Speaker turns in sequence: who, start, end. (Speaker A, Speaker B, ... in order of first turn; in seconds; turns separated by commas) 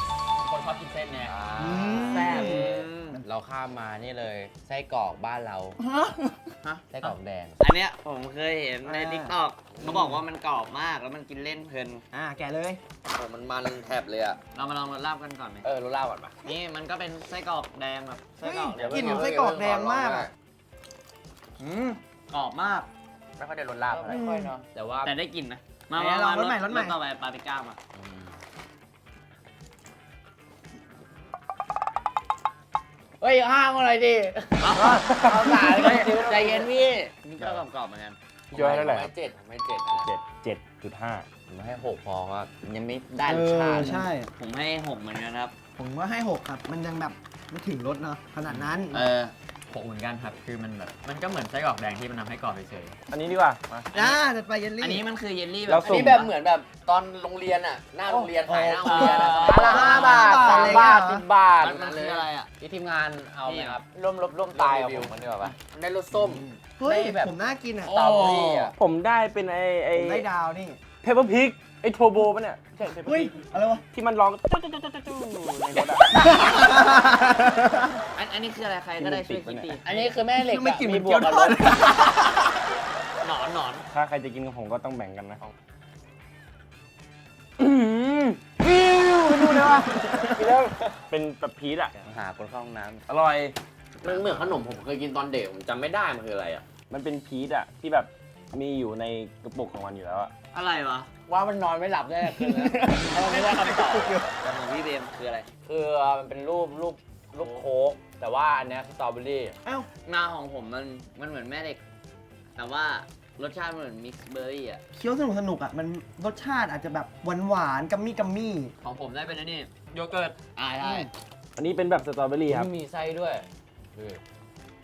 Speaker A: 0.4-1.4, Speaker B: 1.3-2.6, Speaker C: 1.6-3.2, Speaker D: 2.0-3.2, Speaker E: 2.1-5.8, Speaker C: 5.8-6.5, Speaker D: 6.6-12.0, Speaker E: 6.9-7.6, Speaker C: 8.8-9.3, Speaker B: 9.8-10.1, Speaker C: 12.1-12.8, Speaker B: 13.1-14.4, Speaker D: 14.5-15.7, Speaker B: 15.6-16.3, Speaker D: 16.4-19.2, Speaker C: 18.4-20.3, Speaker B: 18.8-20.3, Speaker D: 21.6-22.9, Speaker B: 23.4-24.2, Speaker E: 23.9-25.1, Speaker C: 24.1-24.5, Speaker D: 25.0-27.8, Speaker C: 25.9-27.0, Speaker E: 27.9-28.3, Speaker E: 33.2-36.8, Speaker D: 34.6-35.1, Speaker F: 34.8-35.6, Speaker D: 35.6-38.2, Speaker B: 38.5-40.1, Speaker F: 38.5-39.1, Speaker F: 40.0-41.3, Speaker E: 41.5-44.1, Speaker C: 43.2-44.3, Speaker D: 43.6-45.5, Speaker C: 45.8-49.1, Speaker D: 48.9-49.3, Speaker A: 49.7-53.0, Speaker F: 53.1-53.9, Speaker D: 53.9-54.2, Speaker C: 53.9-55.1, Speaker D: 54.8-56.3, Speaker F: 55.7-56.2, Speaker B: 55.8-61.0, Speaker C: 58.2-61.2, Speaker D: 58.8-60.8, Speaker E: 59.3-65.6, Speaker B: 61.6-62.1, Speaker D: 61.6-62.5, Speaker D: 63.5-63.8, Speaker B: 64.5-66.5, Speaker C: 66.1-67.9, Speaker E: 66.8-67.3, Speaker B: 67.9-68.7, Speaker A: 67.9-68.7, Speaker E: 68.1-68.7, Speaker F: 68.8-70.3, Speaker C: 69.9-70.8, Speaker F: 71.0-73.4, Speaker C: 73.0-73.8, Speaker F: 73.9-76.3, Speaker C: 76.1-77.9, Speaker D: 78.2-80.2, Speaker F: 79.0-79.8, Speaker E: 79.8-81.9, Speaker C: 80.4-82.5, Speaker D: 83.2-83.9, Speaker F: 83.9-85.4, Speaker F: 87.6-91.9, Speaker C: 88.7-90.5, Speaker E: 92.0-93.0, Speaker F: 93.1-93.6, Speaker B: 94.0-96.7, Speaker F: 96.9-100.3, Speaker D: 100.5-101.1, Speaker E: 101.3-104.2, Speaker C: 102.4-104.3, Speaker D: 104.4-105.5, Speaker E: 105.7-109.6, Speaker D: 110.0-111.8, Speaker D: 112.6-114.8, Speaker C: 114.9-118.7, Speaker A: 118.8-120.4, Speaker D: 120.5-121.1, Speaker C: 120.8-121.1, Speaker F: 121.6-122.7, Speaker E: 122.5-124.2